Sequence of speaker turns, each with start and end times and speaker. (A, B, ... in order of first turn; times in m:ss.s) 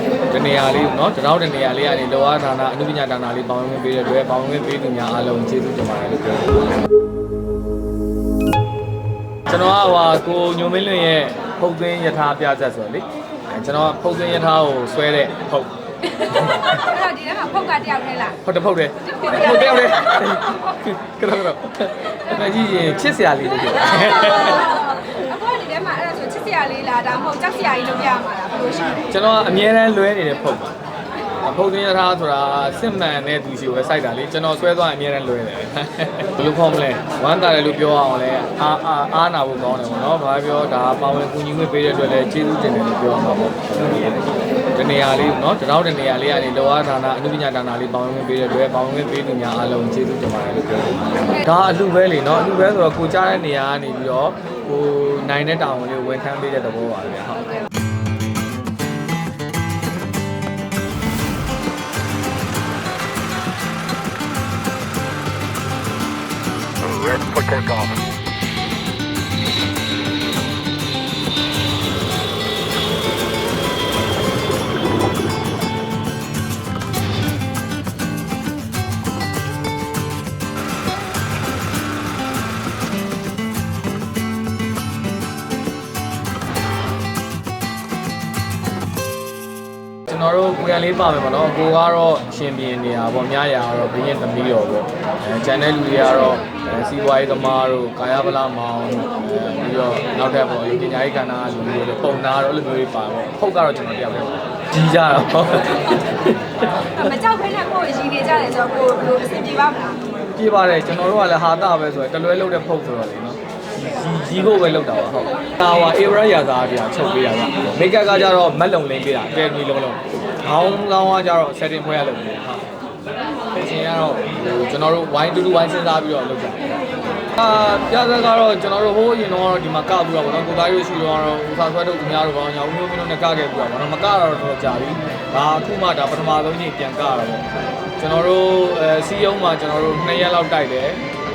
0:00.3-0:06.6 A
0:09.5-0:15.7 A
0:16.2-0:18.4 B
0:16.2-0:16.8 A
0:18.4-0:24.7 A
0:19.0-0:20.0 B
0:23.9-0:29.1 B
0:29.1-0:30.7 A
0:31.3-0:44.2 A
0:44.7-0:57.6 A
1:30.1-1:47.0 A
1:47.0-1:50.1 B
1:50.4-2:02.6 A
2:03.6-2:06.7 A
2:07.4-2:17.5 A
2:18.0-2:21.0 A